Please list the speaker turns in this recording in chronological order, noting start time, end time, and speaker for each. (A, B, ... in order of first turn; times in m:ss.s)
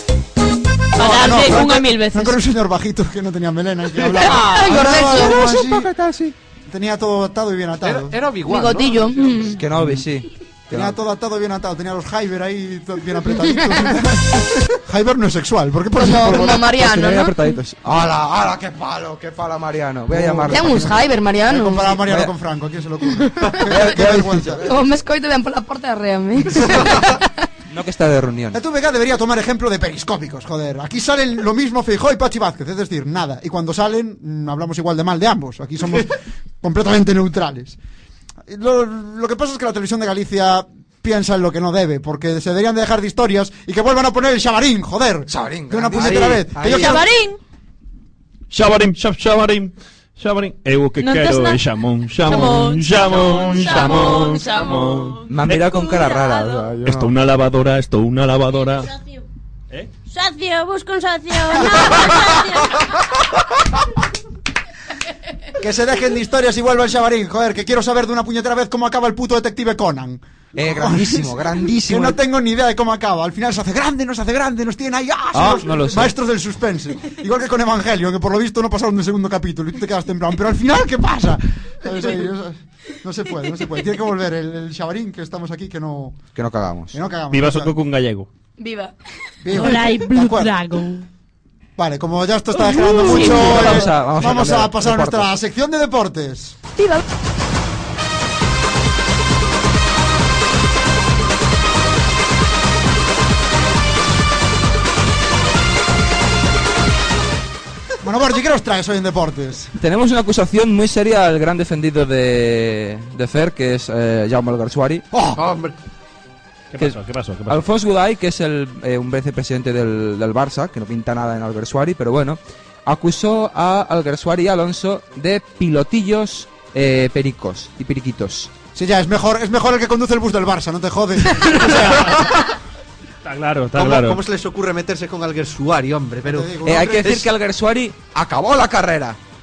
0:01.0-0:02.4 A
0:01.0-0:05.9 B
0:04.2-0:04.7 A
0:04.2-0:05.5 C
0:05.1-0:06.3 D
0:06.7-0:08.2 B
0:07.8-0:09.5 E
0:08.5-0:09.6 C
0:09.5-0:11.0 D
0:10.7-0:16.7 B
0:16.0-0:17.6 C
0:16.6-0:21.0 D
0:20.1-0:24.7 B
0:20.5-0:22.0 C
0:21.9-0:22.3 D
0:23.6-0:24.7 D
0:24.6-0:27.3 C
0:27.7-0:28.6 D
0:28.5-0:37.8 B
0:38.5-0:47.0 B
0:45.3-0:47.0 D
0:46.7-0:47.4 A
0:48.5-0:55.2 F
0:51.0-0:51.6 A
0:52.2-0:56.3 A
0:55.3-0:57.1 D
0:56.8-0:58.9 F
0:58.8-0:59.2 G
1:00.1-1:02.8 G
1:05.6-1:26.2 B
1:10.6-1:12.2 D
1:15.3-1:16.2 D
1:26.4-1:27.0 D
1:26.9-1:27.7 B
1:27.3-1:28.3 F
1:28.6-1:28.9 C
1:29.4-1:30.5 B
1:29.5-1:31.0 G
1:31.8-1:36.6 B
1:32.8-1:35.4 D
1:32.8-1:33.9 A
1:48.0-1:49.7 B
1:49.8-1:55.1 D
1:55.1-1:55.4 B
1:55.4-1:55.8 E
1:56.7-1:57.7 F
1:56.8-2:08.5 D
2:08.8-2:12.0 B
2:11.5-2:12.3 F
2:13.2-2:14.2 F
2:13.8-2:17.2 E
2:16.2-2:17.3 B
2:16.6-2:19.2 D